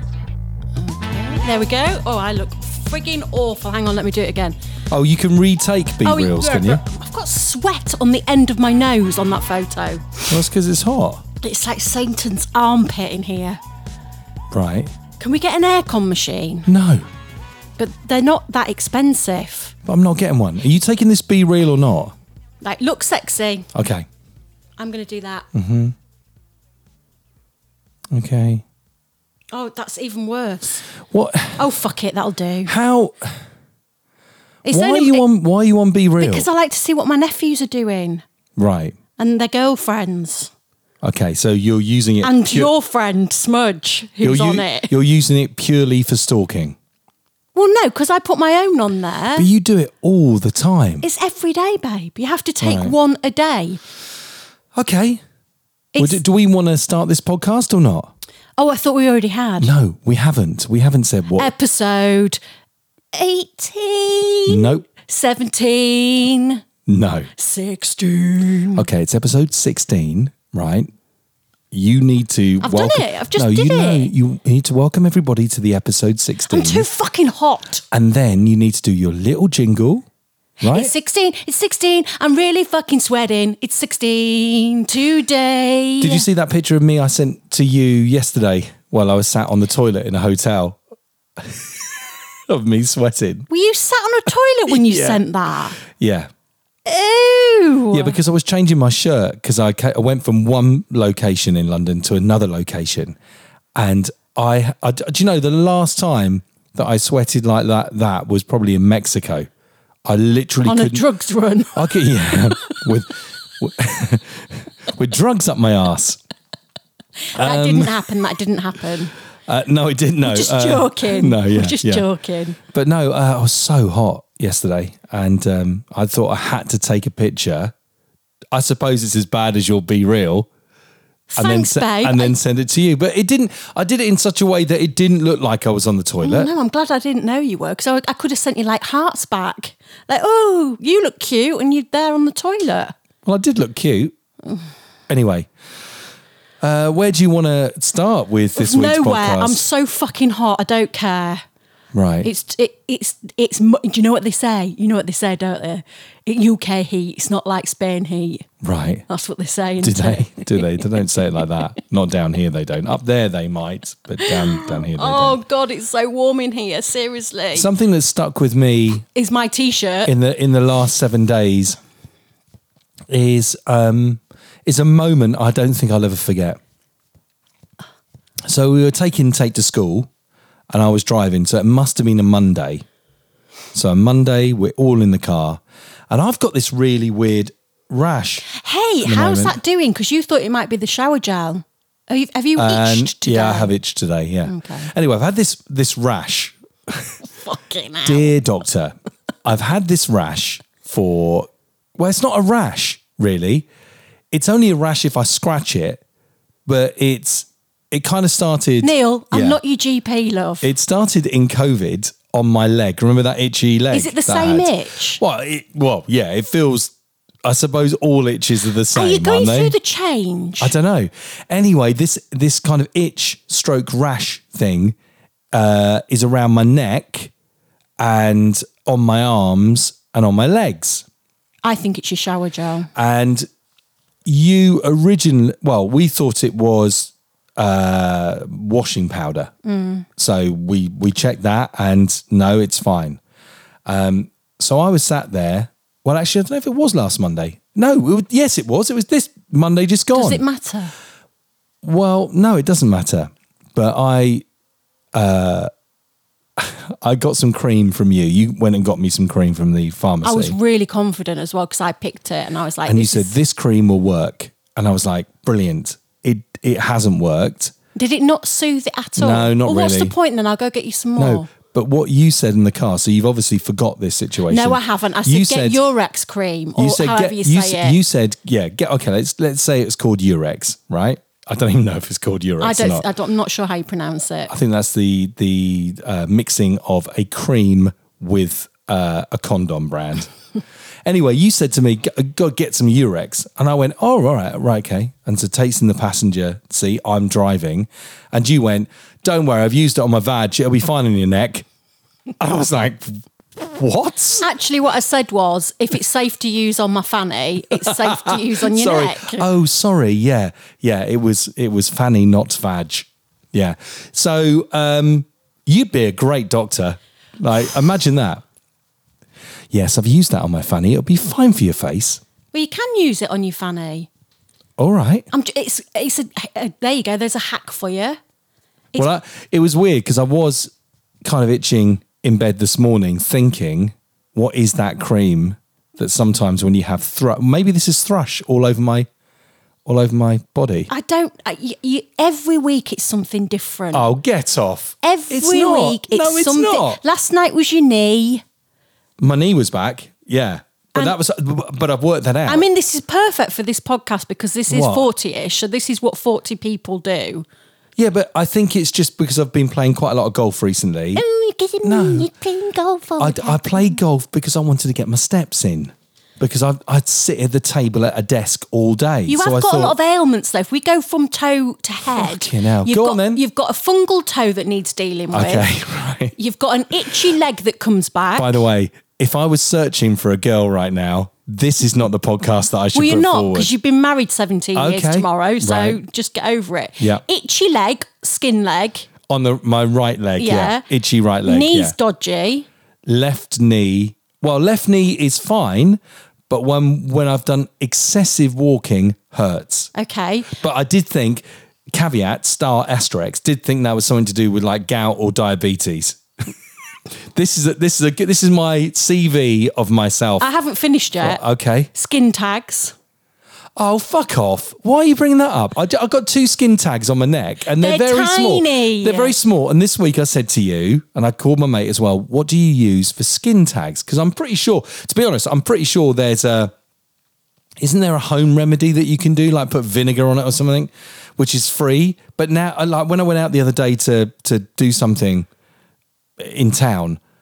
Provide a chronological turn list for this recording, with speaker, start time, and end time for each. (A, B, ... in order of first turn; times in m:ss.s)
0:00.8-0:04.6 A
0:04.9-0:06.8 B
0:06.0-0:10.4 A
0:10.3-0:11.2 B
0:11.4-0:13.6 A
0:14.5-0:14.9 B
0:15.2-0:16.7 A
0:16.6-0:17.0 B
0:17.8-0:19.7 A
0:19.8-0:22.1 B
0:22.6-0:23.7 A
0:23.7-0:24.1 B
0:24.8-0:25.5 A
0:25.5-0:26.0 B
0:28.1-0:28.6 B
0:29.5-0:30.8 A
0:31.1-0:31.6 B
0:31.6-0:32.7 A
0:32.7-0:33.4 B
0:34.6-0:35.2 A
0:34.7-0:36.5 B
0:36.2-0:38.2 A
0:38.6-0:39.0 B
0:39.2-0:40.5 A
0:41.0-0:42.7 B
0:42.2-0:44.9 A
0:44.2-0:46.8 B
0:47.5-0:49.5 A
0:49.4-0:51.1 B
0:51.0-0:53.8 A
0:52.6-0:52.9 B
0:54.7-0:55.2 B
0:55.9-0:56.2 A
0:56.0-0:58.1 B
0:58.6-0:59.7 A
0:59.6-1:01.5 B
1:01.3-1:02.4 A
1:03.1-1:06.6 A
1:04.5-1:04.8 B
1:06.9-1:07.3 B
1:07.4-1:08.8 A
1:08.8-1:10.9 B
1:11.7-1:16.9 B
1:12.6-1:14.1 A
1:16.4-1:17.8 A
1:17.9-1:20.0 B
1:20.6-1:20.9 B
1:20.6-1:26.3 A
1:26.0-1:30.8 B
1:31.4-1:33.5 B
1:33.5-1:35.8 A
1:34.7-1:35.2 B
1:35.8-1:36.3 B
1:36.8-1:38.2 A
1:37.9-1:43.2 B
1:43.8-1:49.5 B
1:50.0-1:51.0 B
1:50.6-1:52.7 A
1:51.7-1:56.2 B
1:57.3-1:59.1 A
1:57.4-1:58.0 B
1:59.5-2:02.0 B
2:00.2-2:02.6 A
2:02.6-2:07.7 B
2:08.5-2:10.5 B
2:11.3-2:12.4 A
2:11.4-2:16.5 B
2:16.2-2:22.9 A
2:23.2-2:24.1 B
2:25.1-2:25.5 B
2:26.6-2:29.6 B
2:28.5-2:31.4 A
2:31.9-2:32.3 B
2:32.2-2:38.4 A
2:38.6-2:39.0 B
2:39.1-2:41.4 A
2:39.8-2:45.4 B
2:44.2-2:47.7 A
2:47.5-2:49.0 B
2:49.1-2:50.1 A
2:50.0-2:51.8 B
2:53.1-2:56.6 B
2:58.5-3:00.1 B
3:00.7-3:02.8 B
3:03.7-3:08.4 B
3:08.4-3:13.7 A
3:09.0-3:09.6 B
3:12.6-3:17.1 B
3:14.4-3:14.9 A
3:17.3-3:18.3 A
3:18.0-3:23.6 B
3:24.3-3:26.0 B
3:26.6-3:29.6 B
3:28.8-3:30.7 A
3:30.6-3:36.9 B
3:33.9-3:35.2 A
3:37.4-3:39.8 B
3:38.9-3:40.7 A
3:40.6-3:45.0 B
3:45.5-3:47.3 B
3:48.0-3:51.0 B
3:51.6-3:52.9 A
3:52.9-3:53.4 B
3:54.2-3:59.5 B
3:59.6-4:00.0 A
4:00.2-4:03.2 B
4:03.8-4:10.4 B
4:10.1-4:10.9 A
4:11.8-4:14.4 B
4:15.1-4:15.7 B
4:16.6-4:20.6 B
4:20.2-4:23.4 A
4:22.8-4:27.7 B
4:27.9-4:31.5 A
4:29.2-4:30.1 B
4:31.2-4:35.8 B
4:34.5-4:38.0 A
4:36.8-4:43.0 B
4:42.6-4:44.5 A
4:44.5-4:50.3 B
4:51.0-5:01.6 B
5:02.4-5:04.4 B
5:04.4-5:09.5 A
5:07.8-5:18.4 B
5:19.7-5:22.2 B
5:22.5-5:24.1 A
5:24.8-5:25.3 B
5:25.3-5:28.2 A
5:29.0-5:30.7 B
5:31.2-5:39.1 B
5:39.8-5:40.9 B
5:40.9-5:44.1 A
5:43.9-5:47.0 B
5:45.0-5:48.4 A
5:49.2-5:52.6 B
5:52.5-5:57.4 A
5:54.7-5:55.1 B
5:58.0-6:01.2 B
6:01.1-6:04.0 A
6:01.8-6:02.3 B
6:03.2-6:10.0 B
6:09.2-6:15.7 A
6:12.1-6:13.4 B
6:15.3-6:16.3 B
6:16.3-6:18.6 A
6:18.4-6:23.7 B
6:22.9-6:29.1 A
6:24.7-6:26.0 B
6:29.3-6:31.9 B
6:30.4-6:30.8 A
6:31.4-6:32.7 A
6:33.0-6:39.9 B
6:39.9-6:40.6 A
6:40.5-6:46.2 B
6:47.3-6:50.4 B
6:50.4-6:51.4 A
6:51.2-6:51.9 B
6:51.9-6:52.9 A
6:53.8-7:06.7 B
6:57.8-6:59.3 A
7:07.8-7:15.5 B
7:16.4-7:17.2 B